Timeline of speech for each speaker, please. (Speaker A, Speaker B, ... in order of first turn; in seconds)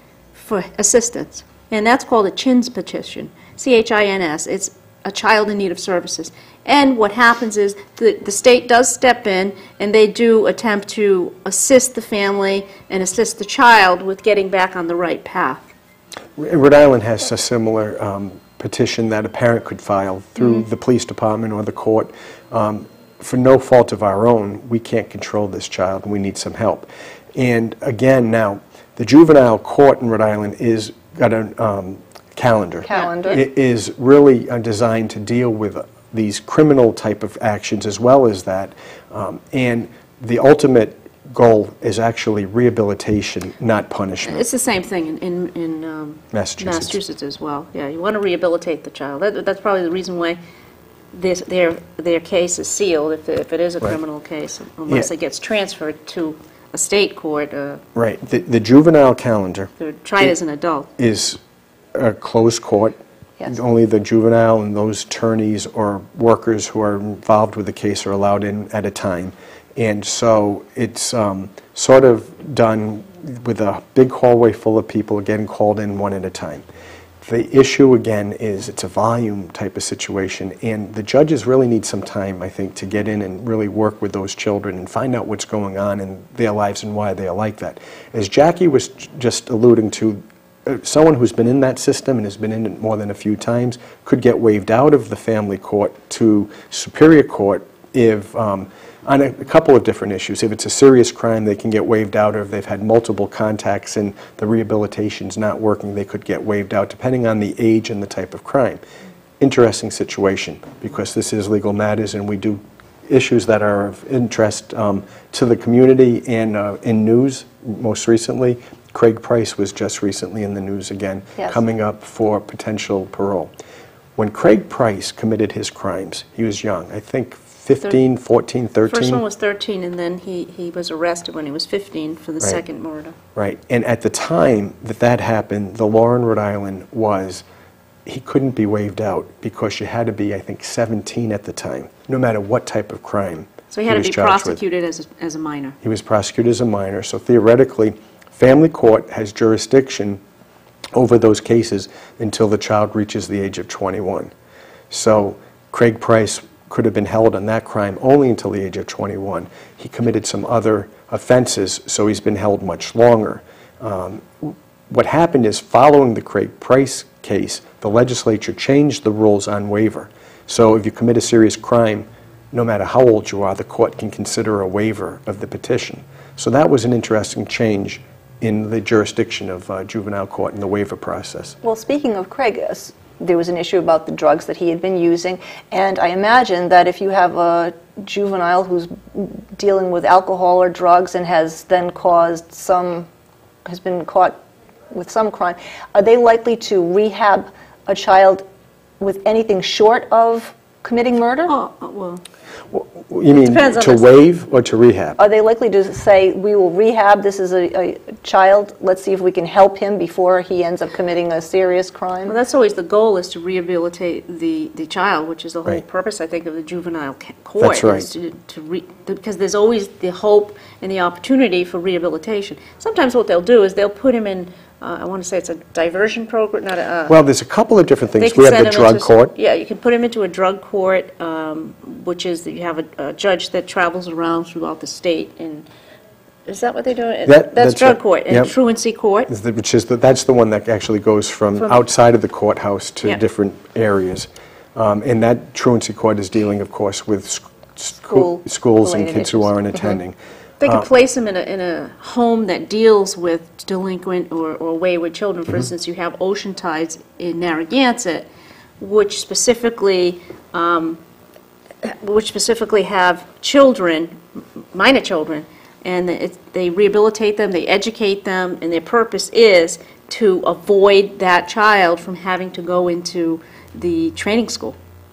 Speaker A: 0.3-15.6, 32.9-33.4, 44.2-50.4, 51.1-57.8, 59.8-60.9, 128.9-133.2, 143.7-145.8, 201.5-202.2, 203.3-204.2, 212.2-227.2, 228.2-235.7, 236.4-239.3, 241.6-241.8, 250.6-258.3, 258.8-261.0, 261.8-264.1, 264.7-274.8
Speaker B: 16.4-44.5, 46.3-47.0, 57.9-60.4, 61.0-61.4, 61.9-76.6, 77.2-108.8, 109.4-123.5, 124.2-129.2, 133.3-137.4, 138.1-144.6, 145.8-150.2, 150.9-154.3, 154.9-181.6, 202.7-205.2, 217.6-218.1, 227.1-229.3, 237.2-238.5, 239.3-250.8
Speaker C: 32.9-33.4, 121.4-121.6, 181.6-193.1, 193.6-194.4, 194.9-198.4, 199.0-201.5, 205.2-212.4, 248.1-249.6